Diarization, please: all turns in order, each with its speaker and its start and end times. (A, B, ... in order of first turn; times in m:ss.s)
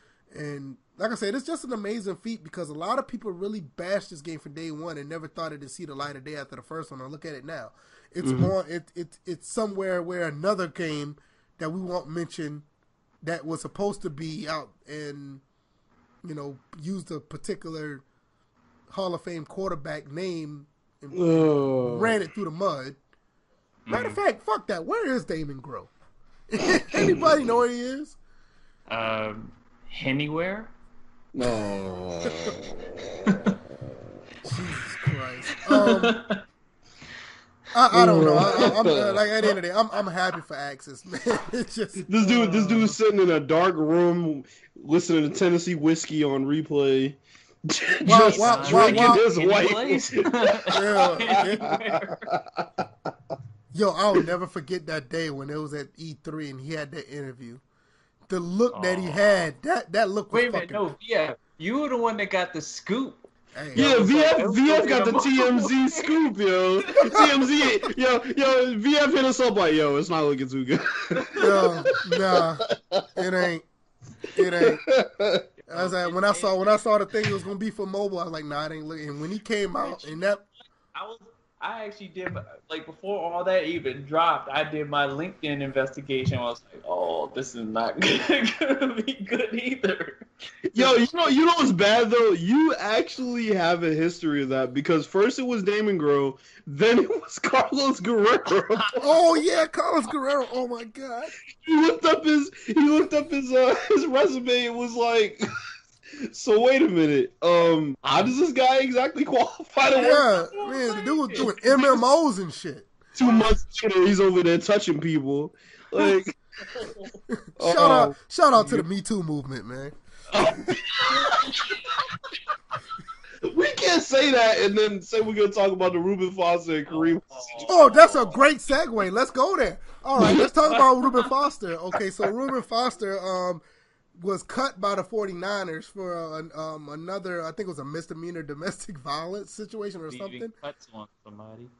0:00.3-0:12.7 A
0:08.2-0:08.5 B
0:13.2-0:15.4 A
0:16.2-0:18.0 A
0:18.9-0:23.0 A
0:21.1-0:22.2 B
0:23.9-0:24.2 C
0:23.9-0:25.9 A
0:26.5-0:28.2 A
0:26.7-0:27.5 B
0:28.9-0:30.7 C
0:31.3-0:33.6 B
0:34.5-0:36.2 A
0:35.7-0:36.4 C
0:37.7-0:42.9 A
0:37.9-0:39.2 B
0:42.0-0:52.9 B
0:48.1-0:49.2 A
0:48.1-0:52.3 C
0:50.7-0:51.7 A
0:53.7-0:57.6 A
0:58.3-1:00.8 A
0:58.7-0:59.5 C
1:00.3-1:03.2 C
1:03.6-1:04.0 A
1:03.8-1:06.2 C
1:03.8-1:13.2 B
1:06.8-1:07.3 C
1:11.4-1:12.6 A
1:13.2-1:13.7 A
1:14.4-1:14.8 A
1:14.6-1:15.4 B
1:15.7-1:16.8 C
1:15.7-1:20.4 A
1:19.8-1:31.1 C
1:30.7-1:38.9 B
1:39.0-1:41.3 A
1:41.5-1:45.4 B
1:46.2-1:50.3 B
1:48.1-1:48.3 C
1:50.0-1:52.9 A
1:50.0-1:52.0 C
1:53.2-1:56.4 B
1:56.7-1:57.2 C
1:57.3-2:00.6 A
1:57.6-1:58.8 B
2:00.3-2:01.8 B
2:00.9-2:01.8 C
2:03.4-2:07.8 B
2:06.9-2:08.4 C
2:07.7-2:13.6 A
2:10.8-2:11.3 C
2:14.2-2:20.5 A
2:20.1-2:21.7 C